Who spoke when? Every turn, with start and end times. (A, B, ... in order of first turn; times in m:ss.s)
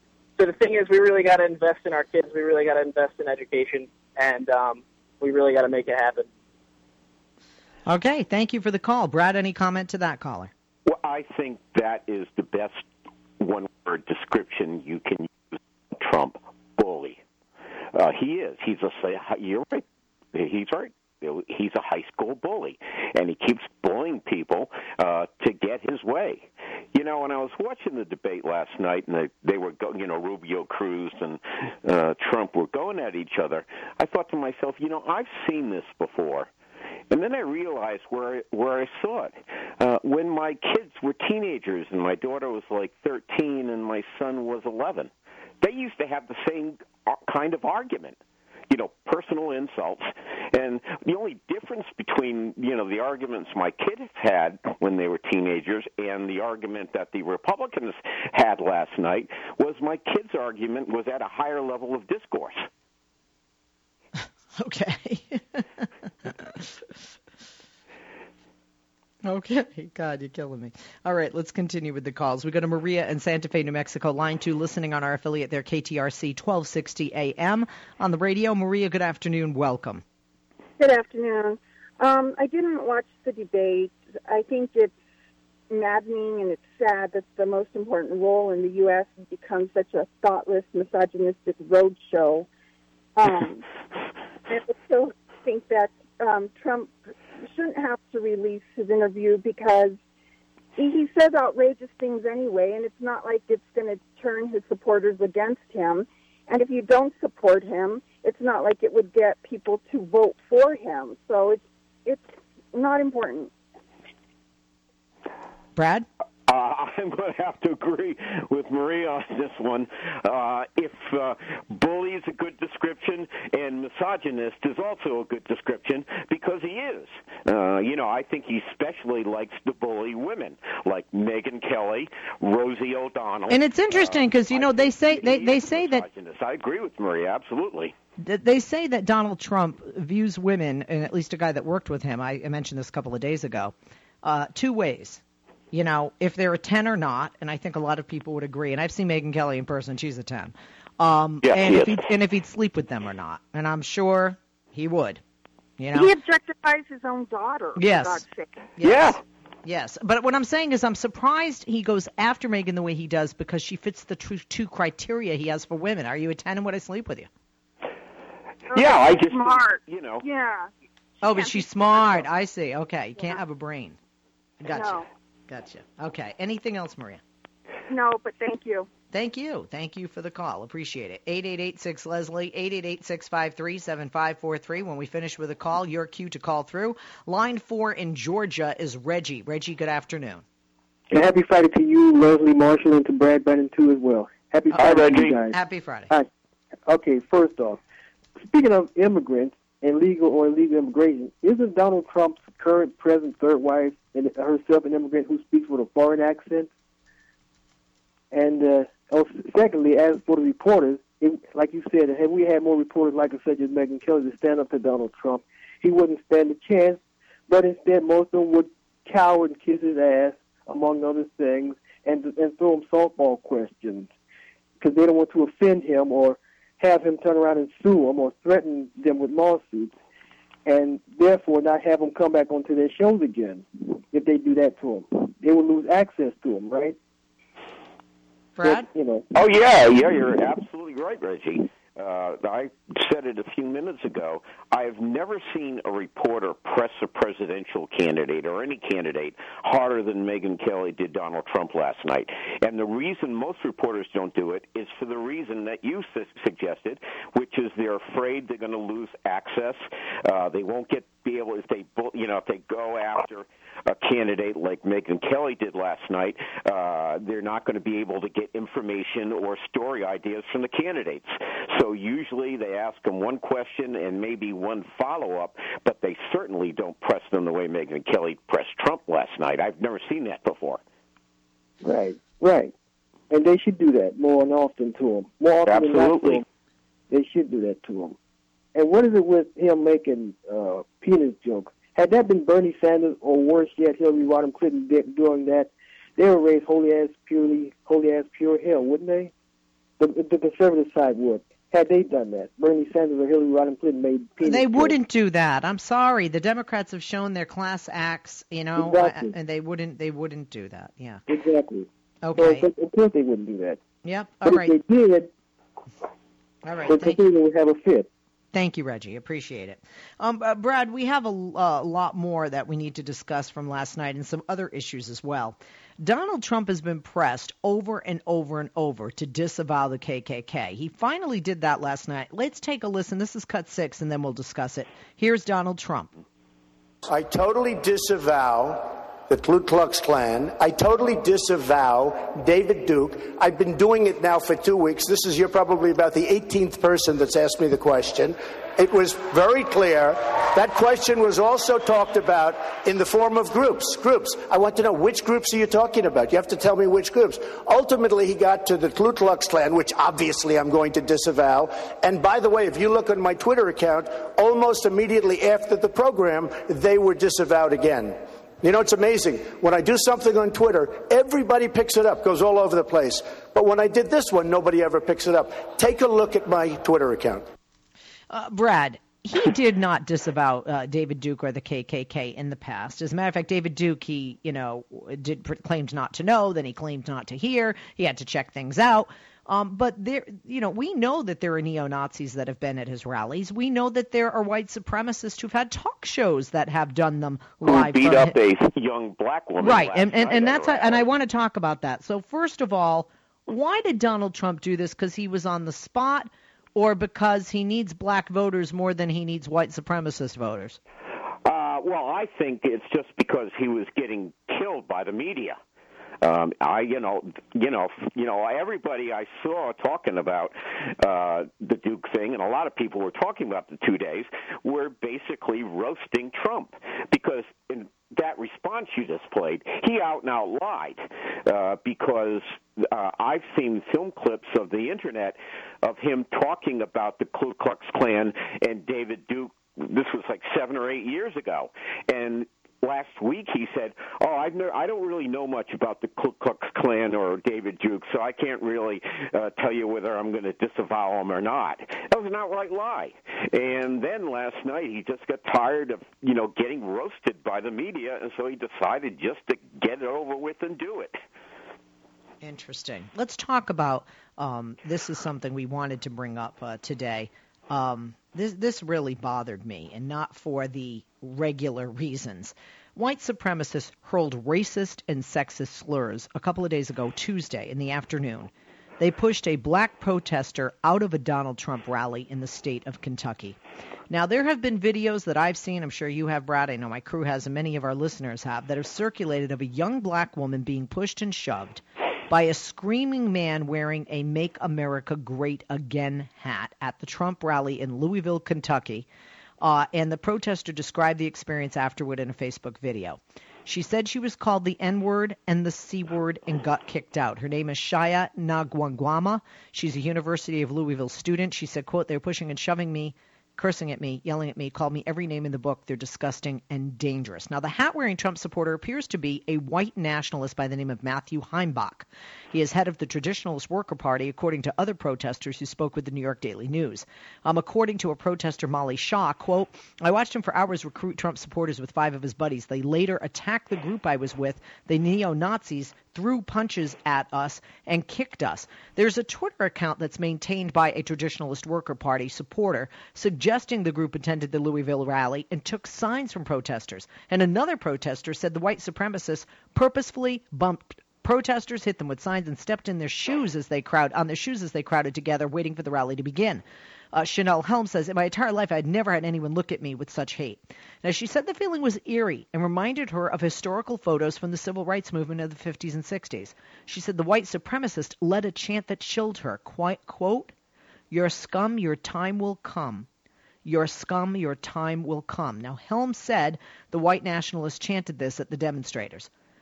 0:00.4-0:06.3 A
0:07.9-0:10.5 B
0:10.9-0:12.8 C
0:13.4-0:17.2 C
0:17.9-0:36.5 C
0:37.1-0:45.1 C
0:45.6-0:48.2 C
0:48.7-1:02.7 C
1:04.6-1:06.8 B
1:09.2-1:20.0 B
1:20.8-1:25.0 D
1:25.7-1:32.5 D
1:33.2-1:33.6 D
1:34.5-1:40.0 D
1:40.8-1:53.5 D
1:55.8-1:56.1 B
1:56.5-2:17.9 C
2:13.5-2:16.0 B
2:18.2-2:35.2 B
2:31.4-2:32.0 C
2:35.8-2:36.1 B
2:35.9-2:38.5 D
2:37.8-2:38.2 B
2:38.8-2:47.3 B
2:38.8-2:39.2 C
2:48.7-2:50.7 D
2:48.7-2:50.2 C
2:51.2-2:54.0 B
2:51.3-2:52.3 D
2:54.6-2:57.2 B
2:54.7-2:55.1 D
2:57.9-2:58.9 D
2:59.1-3:10.4 B
3:11.1-3:16.3 E
3:14.8-3:15.4 C
3:14.8-3:16.1 B
3:16.9-3:17.8 E
3:18.4-3:26.7 E
3:28.3-3:44.1 E
3:44.8-3:50.0 E
3:50.7-3:57.0 E
3:58.6-3:58.9 B
3:58.6-3:59.3 E
3:59.4-4:40.8 C
4:41.8-4:42.7 E
4:43.3-4:46.4 E
4:45.7-4:46.4 C
4:47.1-4:48.2 E
4:48.8-4:59.3 E
5:00.0-5:05.0 E
5:04.4-5:11.2 B
5:08.8-5:09.4 E
5:11.3-5:13.8 E
5:12.2-5:12.7 B
5:14.0-5:14.8 B
5:14.4-5:15.3 E
5:16.6-5:17.2 B
5:16.9-5:18.1 E
5:18.5-5:36.1 B
5:37.1-6:17.4 F
6:18.3-6:38.4 B
6:37.6-6:41.1 C
6:39.6-6:50.8 B
6:51.4-6:55.6 C
6:56.2-7:41.2 C
7:42.4-8:03.6 B
8:04.1-8:19.1 B
8:19.6-9:30.5 B
9:31.1-9:33.1 B
9:33.6-9:39.3 B